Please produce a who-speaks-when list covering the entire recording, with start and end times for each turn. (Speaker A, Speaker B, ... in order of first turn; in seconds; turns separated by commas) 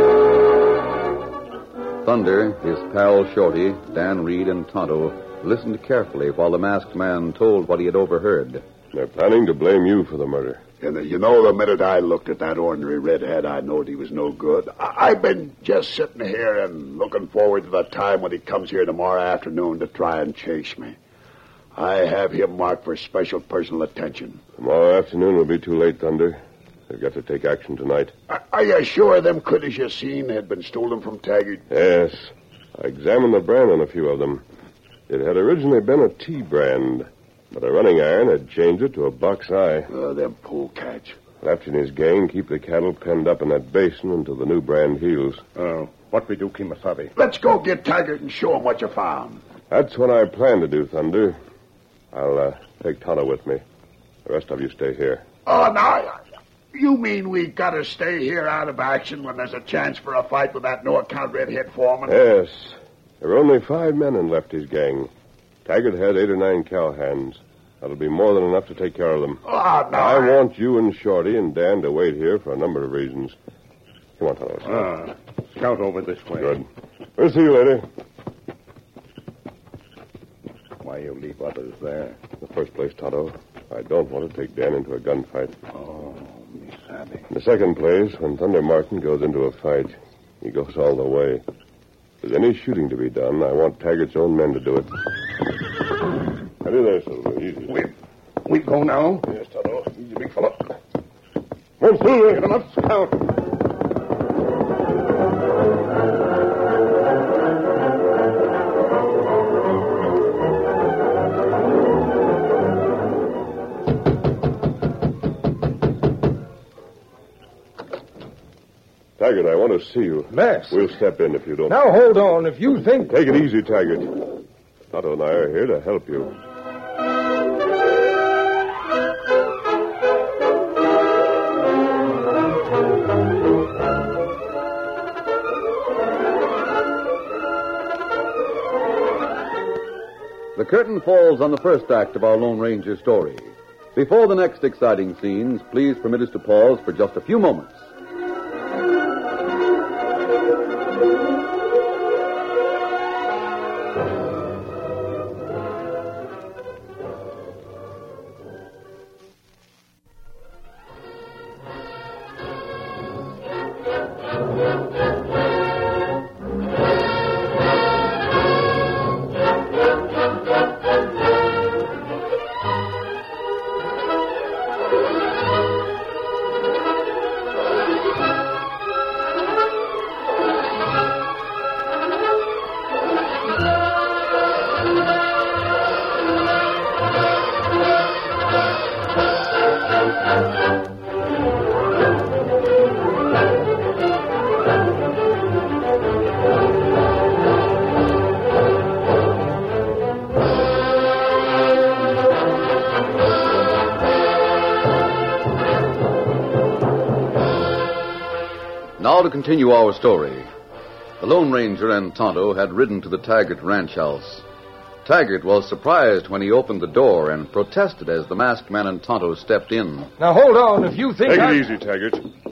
Speaker A: 2.0-8.6, Speaker B: 8.9-10.6, Speaker C: 10.8-21.0, Speaker C: 21.8-24.4, Speaker B: 24.6-28.1, Speaker C: 28.3-31.6, Speaker B: 31.7-34.4, Speaker B: 35.1-39.9, Speaker C: 39.9-41.2, Speaker B: 41.4-45.4, Speaker D: 45.5-47.1, Speaker C: 47.2-49.4, Speaker B: 49.7-51.4, Speaker B: 52.1-53.6, Speaker B: 54.2-55.2, Speaker C: 55.5-56.2, Speaker C: 56.7-62.2, Speaker B: 62.1-65.1, Speaker B: 65.7-73.4, Speaker C: 69.5-70.4, Speaker B: 74.2-75.0, Speaker D: 74.7-76.6, Speaker B: 76.4-76.7, Speaker B: 77.2-77.9, Speaker D: 80.8-82.2, Speaker B: 82.4-85.5, Speaker D: 85.7-87.2, Speaker B: 87.3-91.4, Speaker B: 92.2-94.9, Speaker B: 96.6-97.8, Speaker D: 98.5-99.3, Speaker B: 99.3-100.2, Speaker B: 101.8-102.5, Speaker D: 102.2-103.2, Speaker B: 119.2-121.8, Speaker E: 120.3-120.8, Speaker E: 121.7-123.1, Speaker B: 123.1-124.2, Speaker B: 124.9-126.3, Speaker A: 140.6-147.9, Speaker A: 209.0-210.5, Speaker A: 211.2-214.4, Speaker A: 215.0-220.1, Speaker E: 220.2-221.6, Speaker B: 221.3-222.2